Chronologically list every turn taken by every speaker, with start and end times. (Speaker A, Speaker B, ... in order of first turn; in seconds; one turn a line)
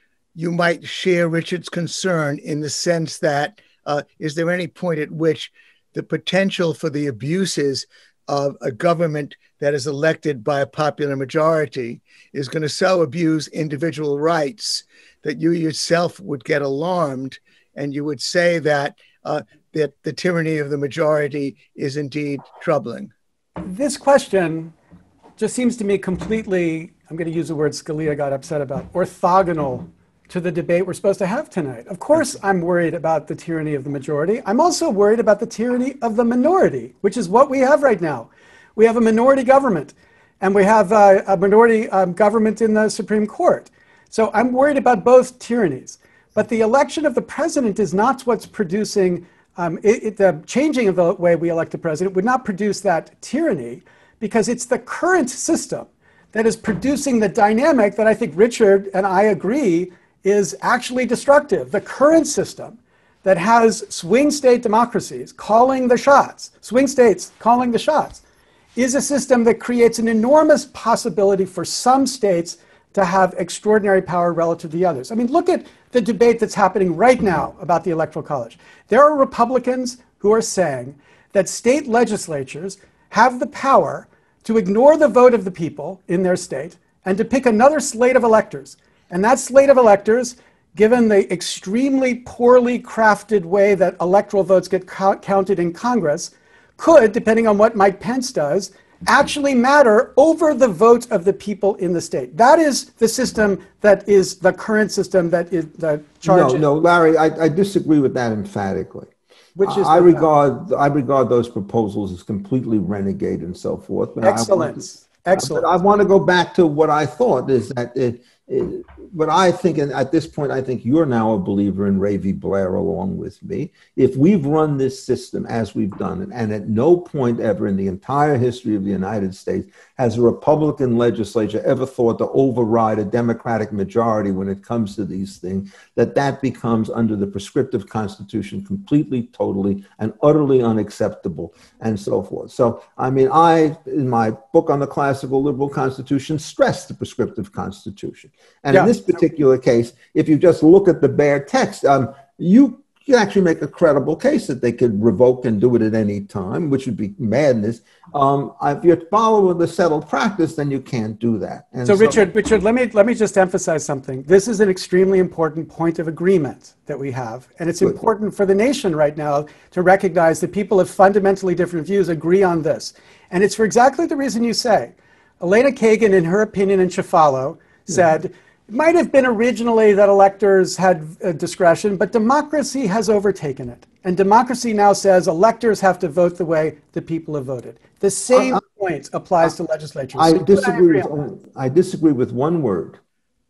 Speaker A: 0.4-23.1
Speaker B: 23.6-24.7
Speaker B: 25.4-68.2
Speaker B: 68.8-106.7
Speaker C: 106.2-109.1
Speaker B: 109.6-110.3
Speaker C: 109.6-114.8
Speaker B: 114.2-115.7
Speaker C: 115.4-162.2
Speaker B: 148.7-149.0
Speaker B: 161.9-191.1
Speaker C: 188.3-188.6
Speaker C: 190.2-193.0